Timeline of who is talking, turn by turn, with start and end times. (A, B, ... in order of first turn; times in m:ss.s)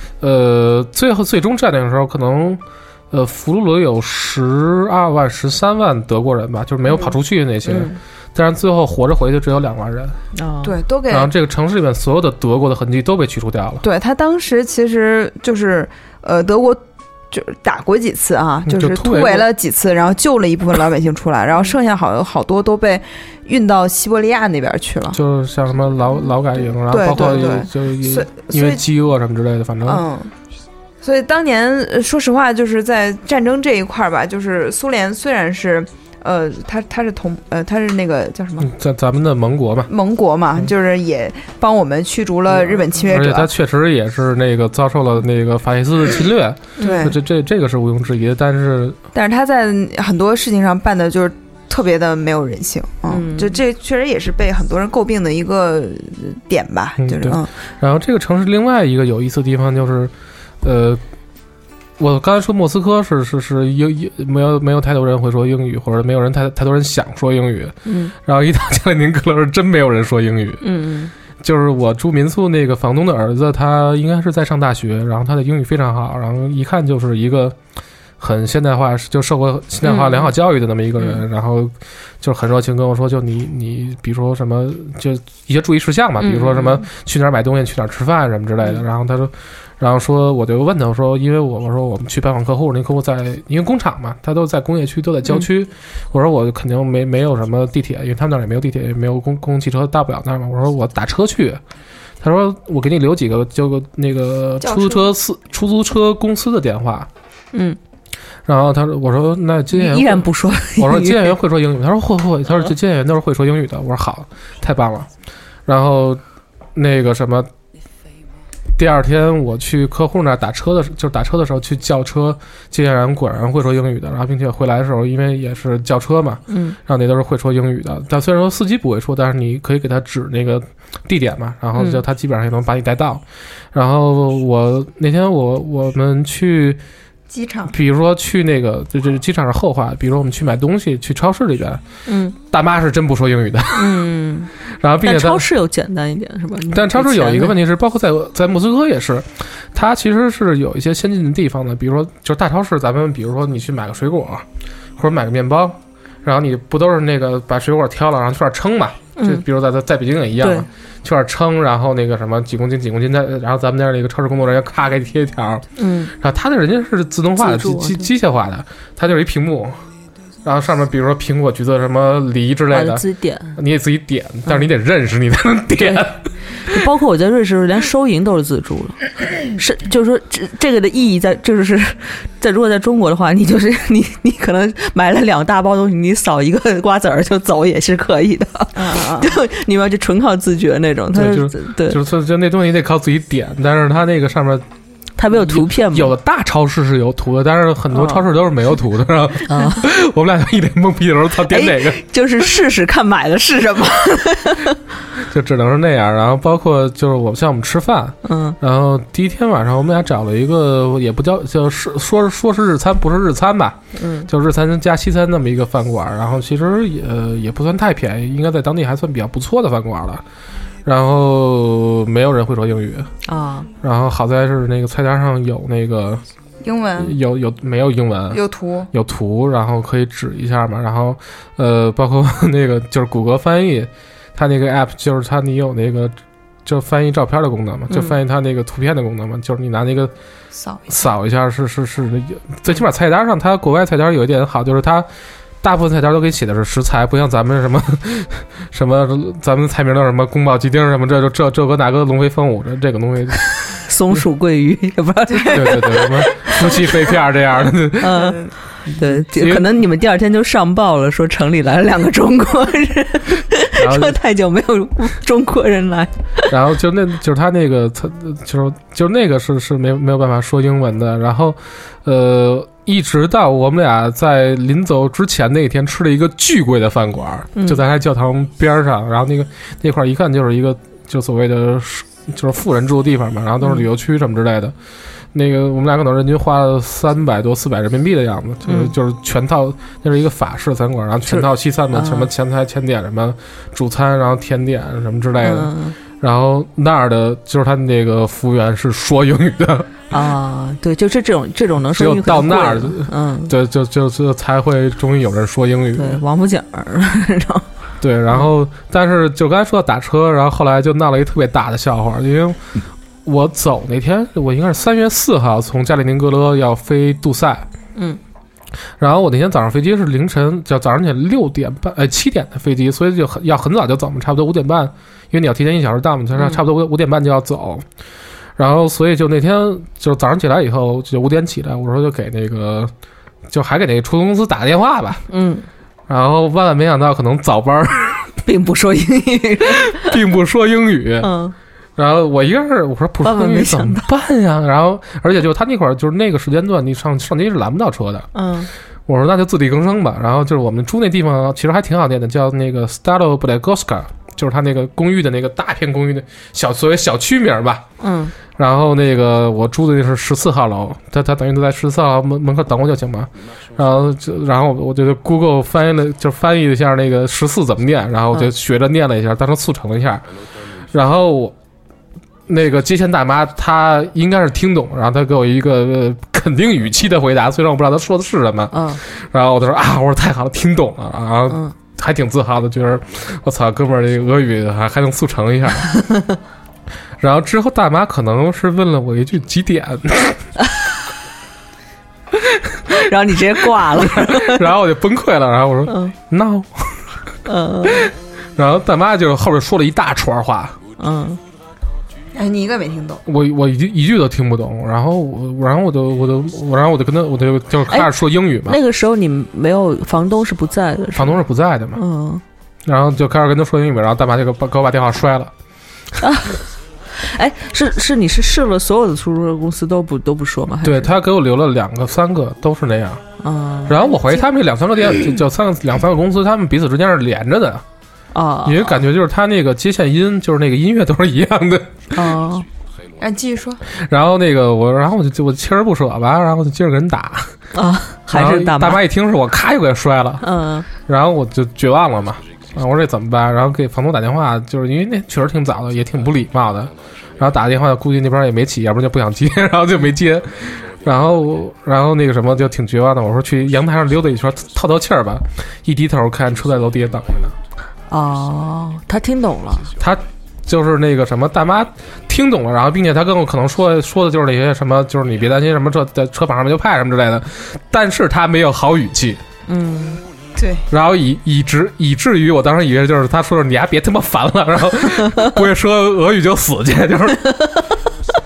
0:00.2-0:10.2 A
0:07.6-0:08.0 B
0:10.3-0:10.8 B
0:10.6-0:11.3 C
0:11.1-0:13.8 A
0:13.8-0:25.2 C
0:18.7-0:19.5 A
0:25.1-0:30.0 A
0:26.9-0:28.8 C
0:29.8-0:30.3 C
0:31.0-0:38.7 C
0:38.6-0:39.9 A
0:39.9-0:43.5 C
0:43.0-0:49.0 A
0:46.8-0:47.1 B
0:46.8-0:47.2 C
0:49.1-0:57.5 C
0:53.1-0:53.6 B
0:57.0-1:01.0 A
1:02.0-1:10.6 A
1:07.9-1:08.1 B
1:10.6-1:11.1 B
1:11.4-1:17.6 A
1:18.2-1:41.6 A
1:19.8-1:20.3 B
1:26.2-1:26.8 B
1:42.2-1:47.1 A
1:44.6-1:45.1 C
1:47.5-1:47.8 B
1:48.5-1:55.1 A
1:49.7-1:51.4 B
1:55.7-1:56.2 A
1:56.8-1:57.5 A
1:58.8-2:16.8 A
2:06.5-2:06.8 B
2:11.8-2:12.0 B
2:17.3-2:17.8 C
2:17.7-2:21.8 A
2:22.1-2:22.4 B
2:22.4-2:24.0 A
2:23.7-2:24.5 B
2:24.6-2:25.5 A
2:25.0-2:27.6 B
2:26.7-2:34.4 A
2:35.0-2:49.8 A
2:39.2-2:39.4 B
2:40.4-2:40.7 B
2:45.8-2:46.1 B
2:47.4-2:48.1 B
2:50.4-2:56.3 A
2:52.7-2:53.6 B
2:55.8-3:12.0 B
3:08.8-3:09.4 C
3:11.1-3:14.6 A
3:15.2-3:16.1 B
3:15.3-3:22.0 A
3:17.9-3:18.3 B
3:19.5-3:19.9 B
3:21.5-3:24.8 B
3:25.2-3:40.2 A
3:28.2-3:28.6 B
3:33.9-3:34.3 B
3:40.9-3:43.1 A
3:43.3-3:43.7 B
3:43.8-3:46.2 A
3:46.6-3:47.2 C
3:47.0-3:48.4 A
3:48.3-3:48.9 C
3:48.9-4:00.1 A
3:57.9-3:58.2 B
4:00.6-4:01.0 C
4:00.9-4:05.1 A
4:05.6-4:13.4 A
4:13.5-4:17.1 B
4:15.4-4:18.2 A
4:18.0-4:26.6 B
4:18.1-4:18.5 C
4:18.9-4:19.7 A
4:23.8-4:24.2 A
4:26.5-4:44.8 A
4:37.6-4:37.8 B
4:45.3-4:59.9 A
4:48.7-4:48.9 B
4:51.3-4:52.3 B
4:55.4-4:56.0 B
5:00.1-5:03.5 B
5:01.9-5:06.2 A
5:06.0-5:07.7 B
5:08.0-5:12.6 A
5:13.2-5:17.7 A
5:19.0-5:27.8 A
5:26.4-5:26.6 B
5:28.6-5:32.9 A
5:33.5-5:35.2 A
5:35.3-5:35.7 B
5:36.1-5:38.3 A
5:38.4-5:40.2 B
5:39.8-5:41.3 A
5:41.2-5:41.6 B
5:42.0-5:48.3 A
5:43.2-5:44.1 B
5:48.3-5:48.7 B
5:49.1-5:57.8 A
5:58.0-5:58.3 B
5:58.6-6:10.3 A
6:10.9-6:11.6 A
6:12.5-6:25.9 A
6:18.7-6:19.0 B
6:21.5-6:21.7 B
6:25.9-6:26.4 B
6:27.2-6:30.4 A
6:32.9-6:34.7 B
6:33.8-6:37.2 A
6:35.9-6:36.1 B
6:37.5-6:38.1 B
6:37.9-6:40.8 A
6:41.0-6:41.4 B
6:42.3-6:43.2 C
6:43.3-6:48.8 A
6:47.9-6:51.4 B
6:51.2-6:52.0 A
6:51.9-6:52.4 B
6:52.9-6:55.5 A
6:56.2-7:01.1 B
7:00.8-7:03.2 A
7:03.4-7:04.0 B
7:03.8-7:07.8 A
7:08.3-7:09.0 B
7:08.6-7:12.2 A
7:12.1-7:12.7 B
7:13.2-7:13.8 C
7:13.9-7:17.6 A
7:17.7-7:19.0 B
7:18.3-7:20.5 A
7:20.4-7:20.9 B
7:21.0-7:37.6 A
7:38.1-7:39.9 B
7:40.0-7:49.4 A
7:49.7-7:50.2 B
7:50.6-7:50.9 C
7:50.9-7:57.5 A
7:57.4-7:57.9 B